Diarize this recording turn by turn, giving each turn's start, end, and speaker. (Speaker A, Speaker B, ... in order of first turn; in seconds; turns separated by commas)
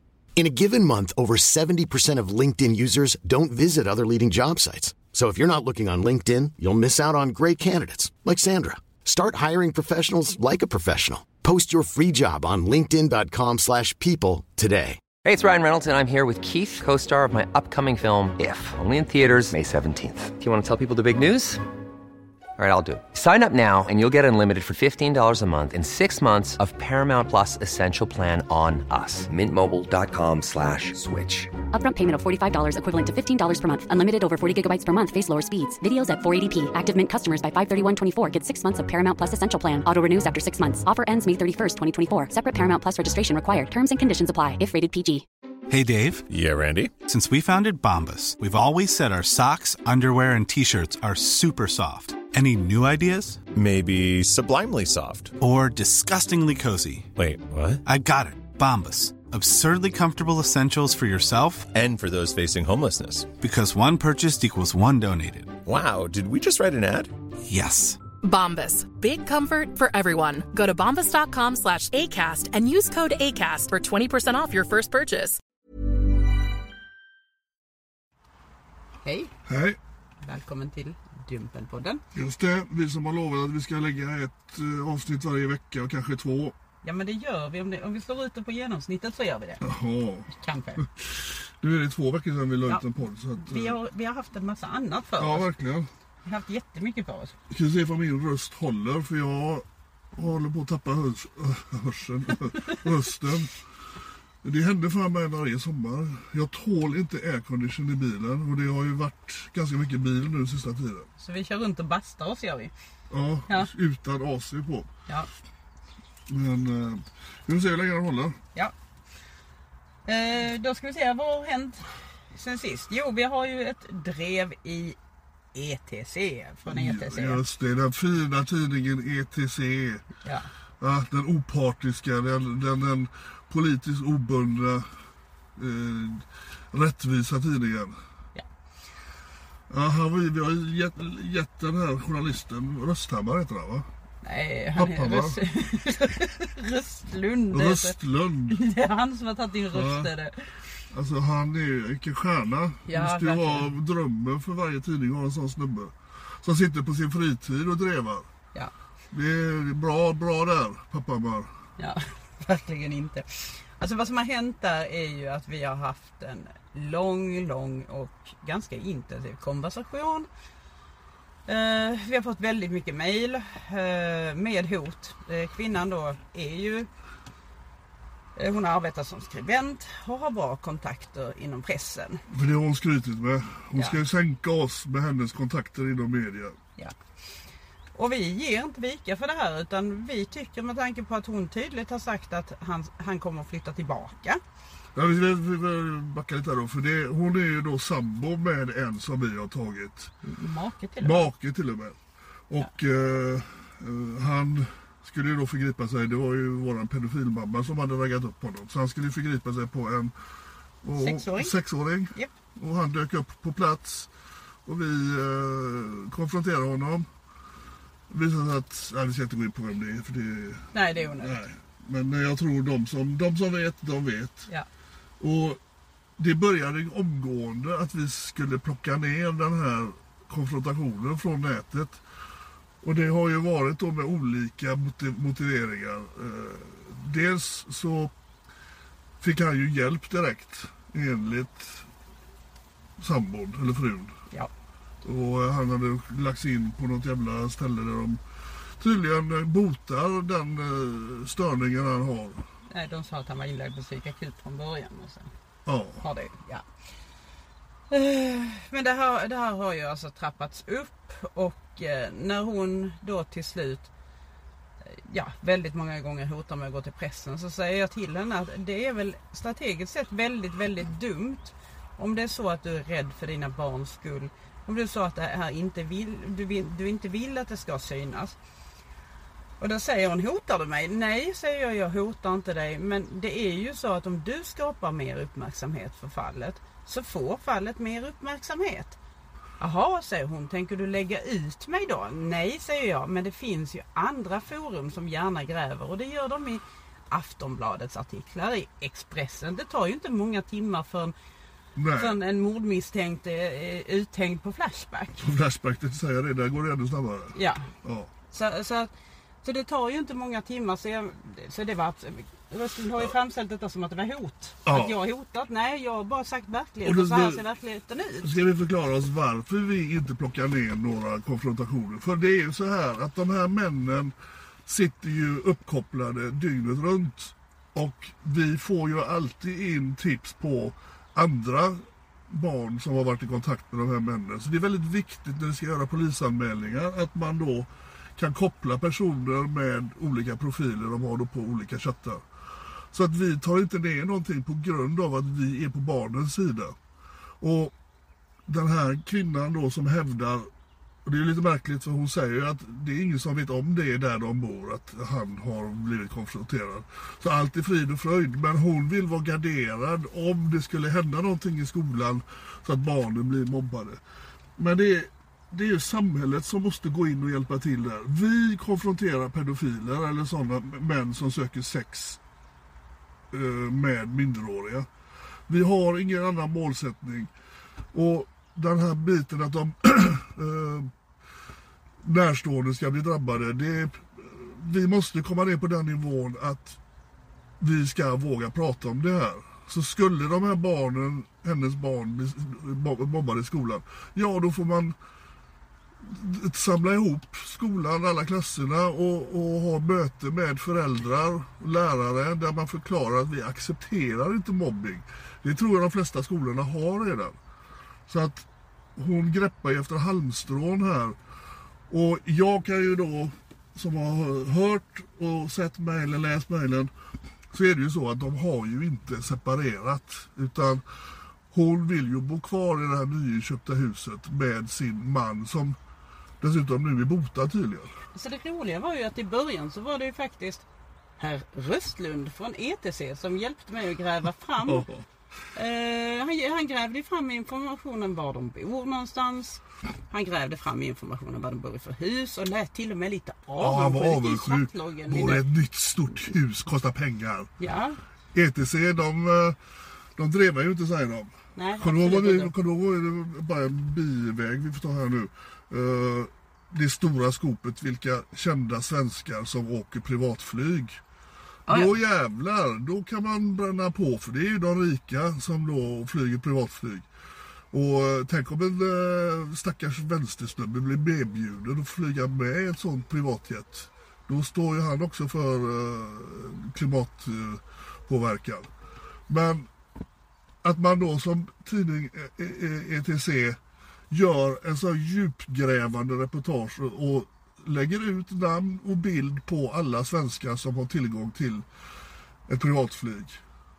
Speaker A: 0.4-15.0, Speaker B: 15.2-21.6, Speaker B: 22.6-31.5, Speaker C: 31.7-45.2, Speaker D: 45.7-46.3, Speaker E: 46.3-47.0, Speaker D: 47.0-53.4, Speaker E: 53.5-55.3, Speaker D: 55.4-57.1, Speaker E: 57.2-57.8, Speaker D: 57.8-61.7, Speaker E: 61.7-63.3, Speaker D: 63.4-65.6, Speaker E: 65.6-67.1, Speaker D: 67.5-68.0, Speaker F: 68.2-75.4, Speaker G: 79.0-79.3, Speaker H: 79.5-79.8, Speaker G: 80.2-82.0, Speaker H: 82.1-86.5, Speaker G: 86.8-89.6, Speaker H: 89.6-93.8, Speaker G: 90.4-90.8, Speaker G: 93.4-95.5, Speaker H: 95.2-95.9, Speaker G: 96.2-97.4, Speaker H: 97.5-103.6, Speaker G: 102.5-102.8, Speaker H: 104.4-111.1, Speaker G: 111.2-112.7, Speaker H: 113.1-114.9, Speaker H: 116.3-118.4, Speaker G: 120.0-125.0, Speaker G: 125.5-127.4, Speaker H: 126.7-130.1, Speaker G: 130.2-130.5, Speaker H: 130.8-134.9, Speaker H: 135.6-138.0, Speaker H: 139.7-143.9, Speaker G: 144.2-148.0, Speaker H: 144.8-145.4, Speaker H: 147.5-148.6, Speaker G: 148.5-150.6, Speaker H: 149.7-150.1, Speaker H: 150.9-158.3, Speaker G: 152.9-153.7, Speaker H: 159.1-161.5, Speaker G: 161.8-170.3, Speaker G: 171.5-176.9, Speaker G: 178.4-182.2, Speaker H: 182.3-186.6, Speaker G: 187.9-194.4, Speaker H: 194.9-200.1, Speaker G: 200.2-201.3, Speaker H: 201.0-202.0, Speaker H: 202.5-210.1, Speaker H: 210.8-214.1, Speaker G: 211.0-211.6, Speaker H: 214.6-217.1, Speaker H: 218.1-224.5, Speaker G: 220.7-221.4, Speaker H: 225.2-225.6, Speaker H: 226.2-232.0, Speaker H: 232.8-238.1, Speaker H: 239.2-241.9, Speaker H: 243.0-244.1, Speaker H: 245.0-248.2, Speaker H: 248.8-252.4, Speaker G: 252.7-255.3, Speaker H: 255.7-256.1, Speaker G: 256.0-256.6, Speaker G: 257.9-263.9, Speaker G: 264.9-278.4, Speaker G: 279.6-289.0, Speaker G: 289.6-301.1, Speaker H: 301.8-302.2, Speaker G: 301.9-305.3, Speaker H: 305.2-308.1, Speaker G: 307.3-307.7, Speaker G: 308.3-308.9, Speaker G: 309.4-318.4, Speaker H: 314.6-315.0, Speaker H: 316.8-317.4, Speaker H: 318.2-324.1, Speaker H: 324.6-342.2, Speaker H: 342.9-346.8, Speaker H: 347.4-347.8, Speaker H: 348.5-350.5, Speaker H: 351.0-364.0, Speaker H: 364.6-372.2, Speaker H: 373.3-374.9, Speaker H: 375.5-377.3, Speaker H: 377.9-380.9, Speaker H: 382.0-386.8, Speaker H: 387.6-394.9, Speaker H: 396.0-407.4, Speaker H: 408.1-411.2, Speaker H: 411.9-416.9, Speaker H: 417.5-425.8, Speaker H: 426.4-428.0, Speaker G: 428.1-430.6, Speaker G: 431.2-434.9, Speaker H: 434.6-435.1, Speaker G: 435.5-445.4, Speaker H: 443.6-447.5, Speaker G: 447.6-448.0, Speaker H: 448.3-449.6, Speaker H: 450.2-461.0, Speaker G: 451.6-452.5, Speaker G: 461.7-461.9, Speaker H: 461.7-467.1, Speaker H: 467.7-478.7, Speaker H: 479.3-479.7, Speaker H: 480.6-483.6, Speaker H: 484.1-491.7, Speaker H: 492.5-493.4